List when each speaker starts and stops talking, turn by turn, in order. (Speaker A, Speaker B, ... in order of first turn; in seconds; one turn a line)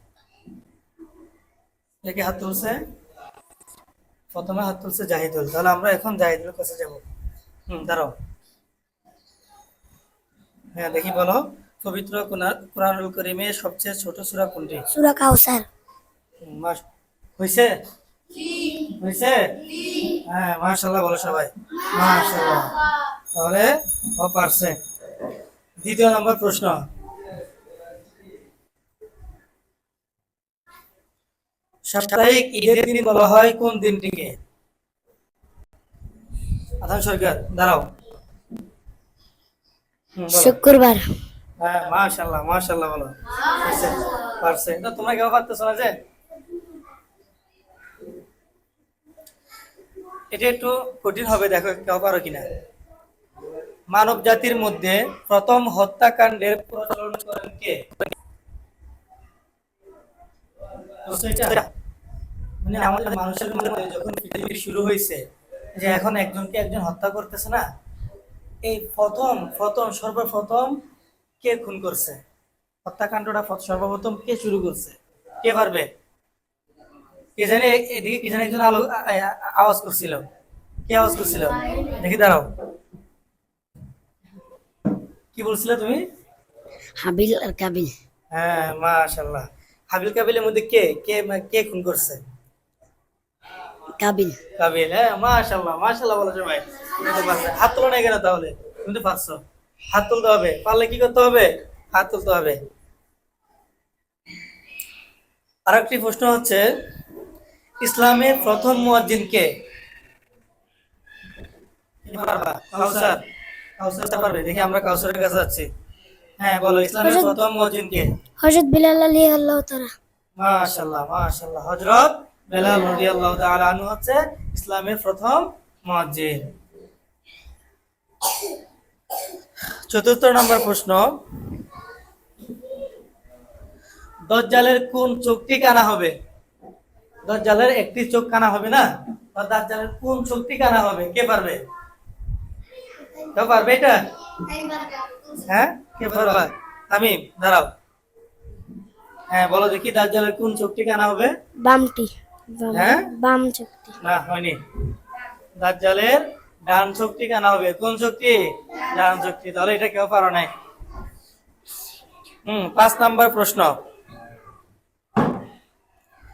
Speaker A: 2.0-2.8
Speaker A: 4.3-7.0
Speaker A: 7.7-8.1
Speaker A: 10.7-14.8
Speaker B: 14.9-15.7
Speaker A: 16.4-16.8
Speaker A: 17.4-17.8
Speaker A: 18.6-19.4
Speaker A: 20.1-22.8
Speaker A: 23.3-24.8
Speaker A: 25.8-26.8
Speaker A: 31.9-34.4
Speaker A: 36.8-37.9
Speaker A: 40.1-40.5
Speaker B: 40.3-41.1
Speaker A: 41.6-46.0
Speaker A: 50.3-52.5
Speaker A: 53.9-57.9
Speaker A: 61.0-61.7
Speaker A: 62.6-65.2
Speaker A: 65.8-67.7
Speaker A: 68.6-70.8
Speaker A: 71.4-72.2
Speaker A: 72.8-75.9
Speaker A: 77.4-80.2
Speaker A: 80.9-82.5
Speaker A: 85.3-86.0
Speaker B: 87.0-88.0
Speaker A: 88.3-92.2
Speaker B: 94.0-94.4
Speaker A: 94.6-102.6
Speaker A: 105.7-106.7
Speaker A: 107.8-109.5
Speaker A: 112.0-113.2
Speaker A: 113.8-115.7
Speaker A: 116.4-118.1
Speaker B: 117.0-117.3
Speaker B: 118.4-119.9
Speaker A: 120.4-126.4
Speaker A: 129.9-131.1
Speaker A: 134.3-136.2
Speaker A: 137.2-141.6
Speaker A: 143.3-144.0
Speaker A: 145.4-147.7
Speaker A: 149.3-151.3
Speaker B: 151.6-154.0
Speaker A: 152.7-153.1
Speaker A: 154.0-154.6
Speaker A: 155.6-160.5
Speaker A: 162.4-163.8